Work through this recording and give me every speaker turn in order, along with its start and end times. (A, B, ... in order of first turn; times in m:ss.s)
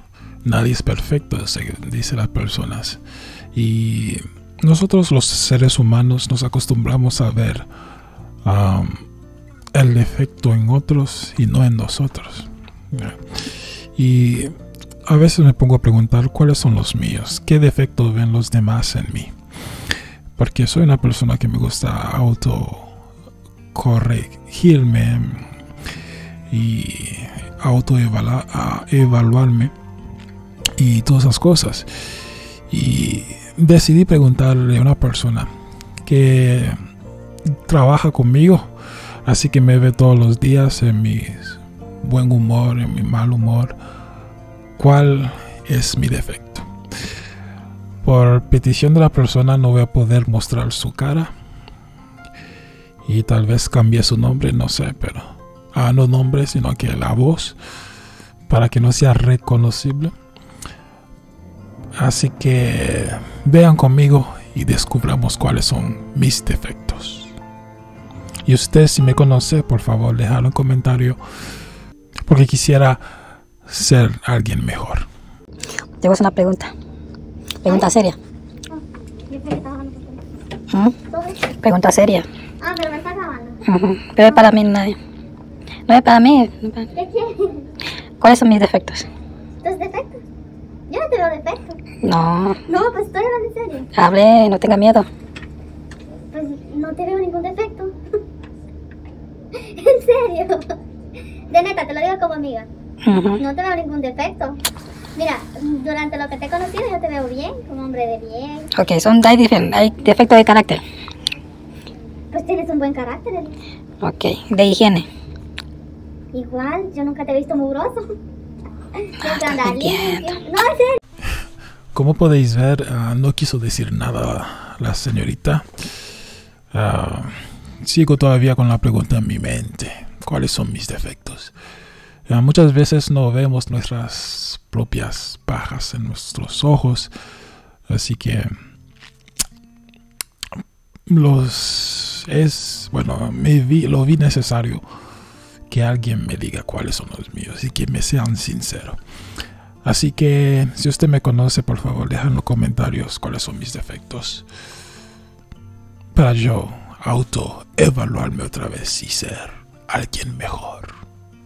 0:00.4-0:03.0 A
0:03.5-0:07.7 A
0:08.4-0:09.0 A
0:09.7-0:13.2 A
0:14.0-0:14.5 A
0:15.1-0:19.3 A
0:20.4-0:22.9 A
0:23.7-0:25.5 A
0:26.5-0:29.7 A
0:30.8-0:31.9 A
0:32.7-0:35.5 A
0:36.0-0:36.8 A
0:37.7-0:38.7 A
0:39.2-0:43.8 A
0:44.8-0:46.7 A
0:48.0-0:51.3 A
0:53.1-0:57.6 A
0:58.5-1:00.1 A
1:02.0-1:07.3 A
1:08.5-1:11.2 A
1:12.3-1:13.0 A
1:13.7-1:15.1 A
1:16.0-1:16.7 B
1:17.6-1:18.2 B
1:17.7-1:17.9 C
1:18.7-1:20.2 C
1:21.1-1:21.6 C
1:21.6-1:22.3 B
1:22.6-1:23.6 C
1:23.7-1:25.0 B
1:24.2-1:24.5 C
1:25.9-1:26.9 B
1:26.9-1:27.7 C
1:28.2-1:29.1 B
1:29.6-1:30.2 C
1:30.9-1:31.8 C
1:32.0-1:32.6 B
1:32.7-1:33.9 C
1:34.0-1:35.1 B
1:36.3-1:38.0 C
1:39.5-1:40.8 C
1:41.5-1:42.7 C
1:43.0-1:43.4 B
1:43.4-1:44.6 C
1:45.2-1:48.7 C
1:48.8-1:50.8 B
1:52.3-1:53.6 C
1:54.0-1:55.1 B
1:56.3-1:58.1 C
1:59.0-2:01.0 C
1:59.2-2:00.3 B
2:01.9-2:05.7 A
2:06.7-2:11.5 A
2:12.3-2:17.1 A
2:17.9-2:18.5 A
2:21.1-2:24.8 A
2:25.7-2:29.0 A
2:29.8-2:34.5 A
2:36.1-2:40.9 A